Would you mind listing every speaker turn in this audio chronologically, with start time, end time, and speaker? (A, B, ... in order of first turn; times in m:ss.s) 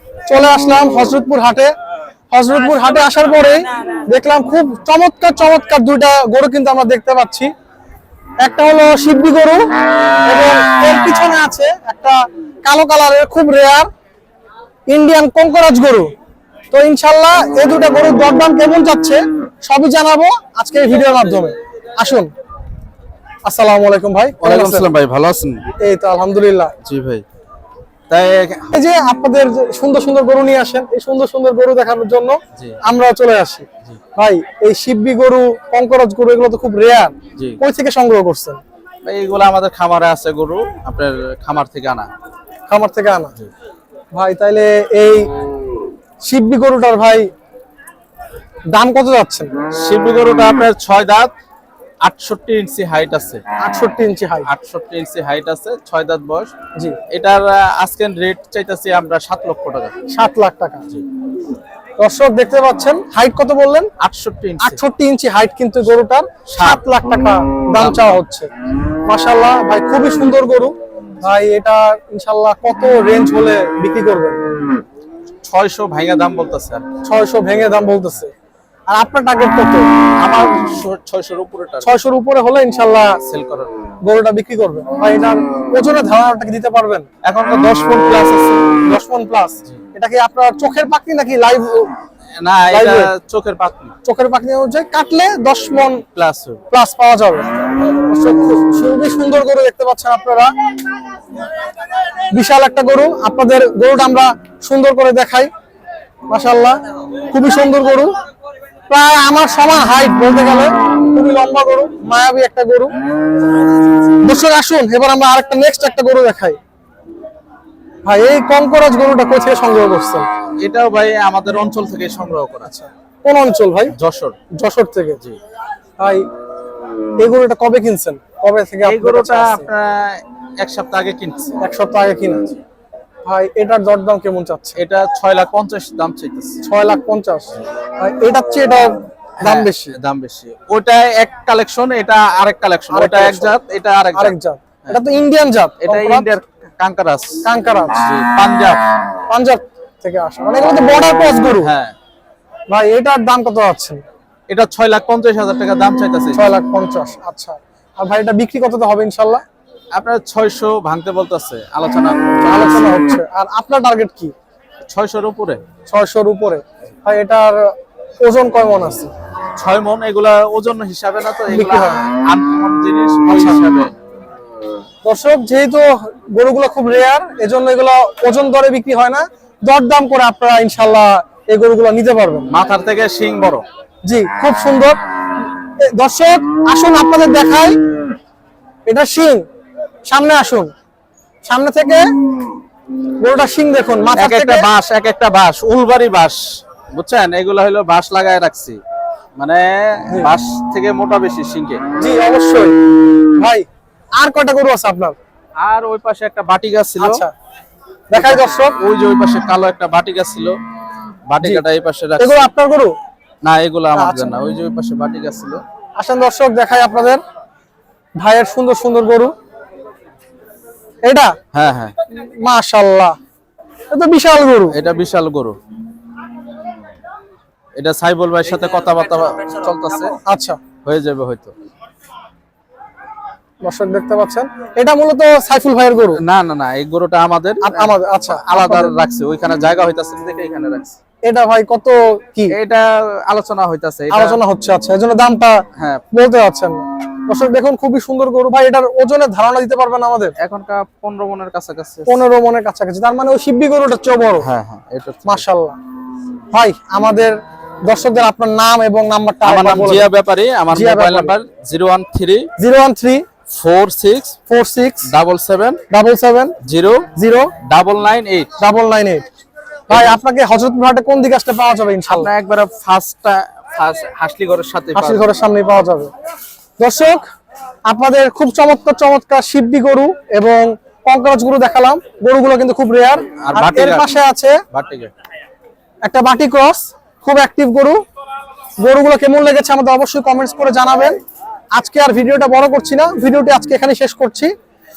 0:00.3-0:01.7 A
0:02.3-0:07.5 A
0:08.4-0:09.6 A
0:10.3-0:13.9 A
0:14.9-0:16.1 A
0:16.7-0:22.3 A
0:23.5-0:24.9 A
0:24.4-0:25.7 B
0:25.8-0:26.7 A
0:26.8-0:27.2 B
0:28.1-0:28.8 B
0:28.8-0:38.6 A
0:39.0-0:42.1 B
0:42.7-0:43.4 A
0:44.1-0:45.3 A
0:46.2-0:47.3 A
0:48.7-0:49.5 A
0:49.7-0:51.3 B
0:52.0-0:53.4 B
0:53.6-0:54.5 A
0:54.5-0:56.5 B
0:57.1-0:59.9 B
1:00.1-1:00.8 A
1:02.0-1:03.9 A
1:04.0-1:04.8 B
1:04.6-1:08.5 A
1:06.5-1:06.8 B
1:07.8-1:08.2 B
1:09.1-1:14.4 A
1:15.4-1:16.8 B
1:17.0-1:18.3 A
1:18.9-1:19.9 A
1:20.2-1:22.0 B
1:21.8-1:23.2 A
1:23.2-1:23.7 B
1:24.0-1:27.1 A
1:27.2-1:28.7 B
1:28.9-1:31.9 A
1:32.4-1:33.9 B
1:32.7-1:33.1 A
1:34.0-1:36.0 A
1:36.2-1:36.6 B
1:36.7-1:40.5 A
1:42.3-1:45.5 A
1:46.3-1:46.8 A
1:47.3-1:48.1 A
1:48.9-1:52.9 A
1:54.2-1:56.6 A
1:58.0-2:00.3 A
2:00.6-2:02.7 B
2:02.6-2:03.9 A
2:03.9-2:04.4 B
2:04.6-2:05.2 A
2:07.2-2:09.7 A
2:08.8-2:11.6 B
2:11.6-2:12.6 A
2:13.3-2:14.8 A
2:14.8-2:16.6 B
2:16.6-2:19.9 A
2:19.4-2:25.0 B
2:22.9-2:23.6 A
2:24.2-2:26.3 A
2:25.8-2:27.4 B
2:27.4-2:28.0 A
2:28.0-2:28.8 B
2:29.3-2:31.7 A
2:31.6-2:32.0 B
2:32.7-2:34.0 A
2:34.5-2:36.4 B
2:36.3-2:39.4 A
2:39.9-2:42.9 B
2:42.4-2:44.3 A
2:44.9-2:45.6 B
2:45.9-2:49.1 A
2:49.6-2:53.9 B
2:51.5-2:52.1 A
2:53.3-2:53.6 A
2:55.0-3:02.5 A
3:02.5-3:03.6 B
3:04.1-3:05.0 A
3:05.8-3:07.8 A
3:08.9-3:09.4 A
3:10.1-3:10.7 A
3:11.5-3:12.0 A
3:13.2-3:14.7 A
3:14.2-3:18.8 B
3:19.4-3:21.8 B
3:22.0-3:22.7 A
3:23.4-3:23.6 A
3:24.2-3:25.2 A
3:25.6-3:27.2 B
3:27.0-3:27.3 A
3:28.1-3:28.8 A
3:28.1-3:30.6 B
3:31.3-3:32.5 B
3:32.2-3:32.9 A
3:33.4-3:35.6 B
3:33.9-3:34.3 A
3:36.0-3:37.2 A
3:38.2-3:39.3 A
3:41.0-3:41.4 A
3:41.5-3:42.0 B
3:42.4-3:43.1 A
3:43.9-3:44.8 A
3:44.7-3:45.6 B
3:47.8-3:50.2 B
3:50.3-3:50.6 A
3:50.8-3:51.5 B
3:53.6-3:56.2 A
3:56.2-4:01.0 B
3:57.6-3:58.9 A
4:01.3-4:02.6 A
4:02.5-4:04.4 B
4:04.1-4:10.4 A
4:05.8-4:06.0 B
4:10.4-4:12.2 B
4:12.1-4:14.5 A
4:14.4-4:15.4 B
4:15.3-4:15.8 A
4:16.5-4:20.1 A
4:19.4-4:22.5 B
4:20.7-4:21.3 A
4:22.6-4:23.2 A
4:23.5-4:24.4 B
4:24.5-4:25.1 A
4:25.0-4:25.8 B
4:25.9-4:26.6 A
4:26.6-4:27.1 B
4:27.1-4:27.5 A
4:27.6-4:28.5 B
4:28.6-4:29.2 A
4:29.9-4:32.3 A
4:29.9-4:30.2 B
4:32.1-4:35.3 B
4:35.0-4:36.1 A
4:36.8-4:37.2 A
4:37.9-4:44.6 A
4:43.4-4:44.1 B
4:44.7-4:45.1 B
4:46.0-4:48.0 A
4:48.8-4:51.2 A
4:51.8-4:54.5 A